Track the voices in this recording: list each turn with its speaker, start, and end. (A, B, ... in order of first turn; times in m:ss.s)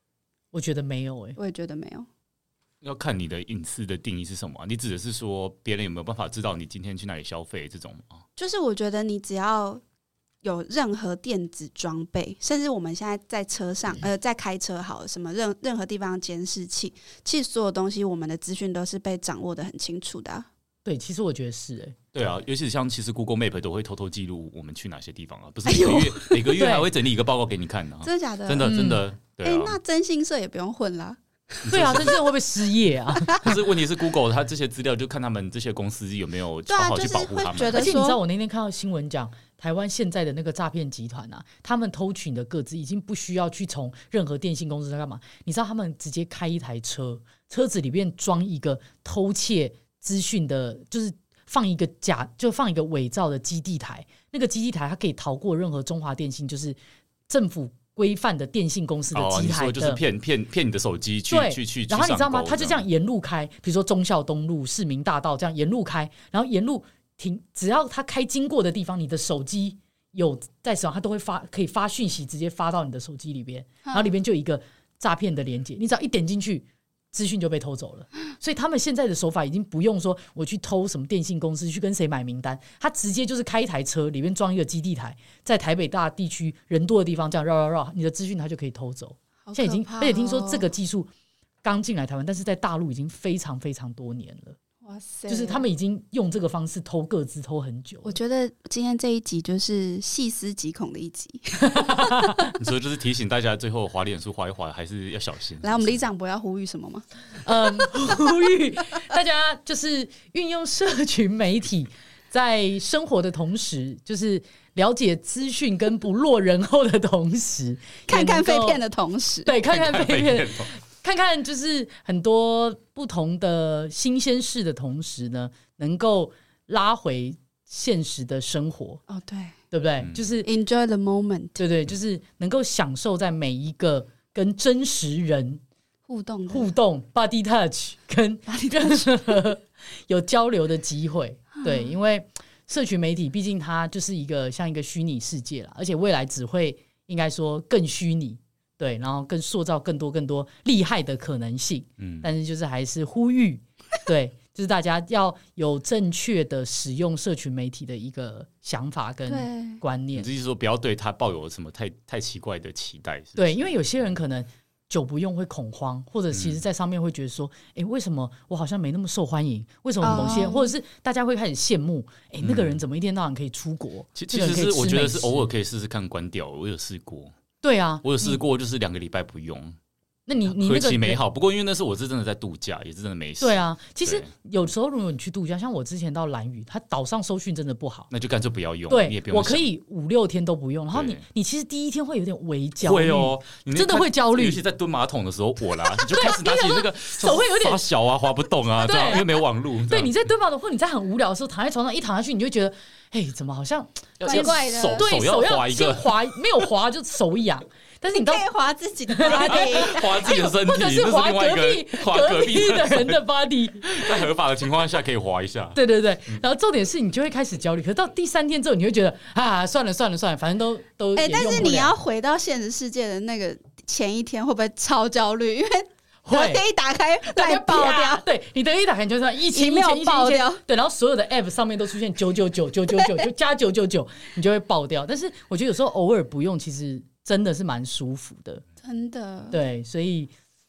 0:00.5-0:01.4 A
0:01.4-0:02.1 B
0:02.8-0:08.2 C
0:08.4-0:09.8 B
0:10.4-0:20.5 B
0:20.8-0:22.0 A
0:22.1-0:29.8 C
0:25.6-0:26.4 B
0:26.5-0:26.9 A
0:28.0-0:28.7 B
0:28.6-0:29.0 A
0:29.4-0:32.2 B
0:31.6-0:32.1 C
0:31.7-0:33.5 A
0:33.1-0:33.5 B
0:33.4-0:37.9 C
0:36.7-0:38.2 B
0:37.7-0:56.8 A
0:57.3-1:00.0 A
0:59.1-1:02.8 C
1:01.3-1:31.1 A
1:13.8-1:14.1 B
1:29.4-1:30.7 B
1:31.6-1:34.6 A
1:34.8-1:35.6 B
1:35.3-1:38.2 A
1:38.0-1:42.5 B
1:41.6-1:42.5 A
1:42.5-1:46.1 C
1:45.6-1:47.0 B
1:47.4-1:58.8 A
1:58.1-1:59.5 B
1:59.4-2:09.0 A
1:59.7-2:00.7 C
2:09.1-2:09.6 B
2:09.7-2:10.5 A
2:10.0-2:10.4 C
2:10.4-2:11.6 B
2:11.6-2:15.6 A
2:16.1-2:16.7 B
2:16.5-2:40.3 A
2:18.5-2:19.2 B
2:21.6-2:21.9 B
2:32.0-2:32.3 C
2:39.3-2:39.8 B
2:40.1-2:43.7 C
2:43.4-2:55.4 A
2:46.3-2:46.6 C
2:50.0-2:50.7 B
2:52.4-2:52.8 C
2:54.1-2:57.3 C
2:57.6-2:58.4 A
2:58.0-2:59.8 C
3:00.2-3:01.2 A
3:00.4-3:04.3 C
3:03.4-3:08.1 A
3:08.1-3:09.7 C
3:08.9-3:14.6 A
3:10.9-3:11.2 C
3:12.8-3:20.2 C
3:15.9-3:17.8 A
3:18.8-3:28.5 A
3:24.2-3:26.1 C
3:24.3-3:25.1 B
3:28.1-3:30.3 B
3:29.1-3:34.1 A
3:29.3-3:33.2 C
3:33.8-3:35.8 C
3:35.7-3:41.9 A
3:41.2-3:48.2 B
3:46.2-3:46.6 A
3:47.2-3:58.6 A
3:49.5-3:50.6 B
3:58.8-3:59.6 B
3:59.5-4:00.3 A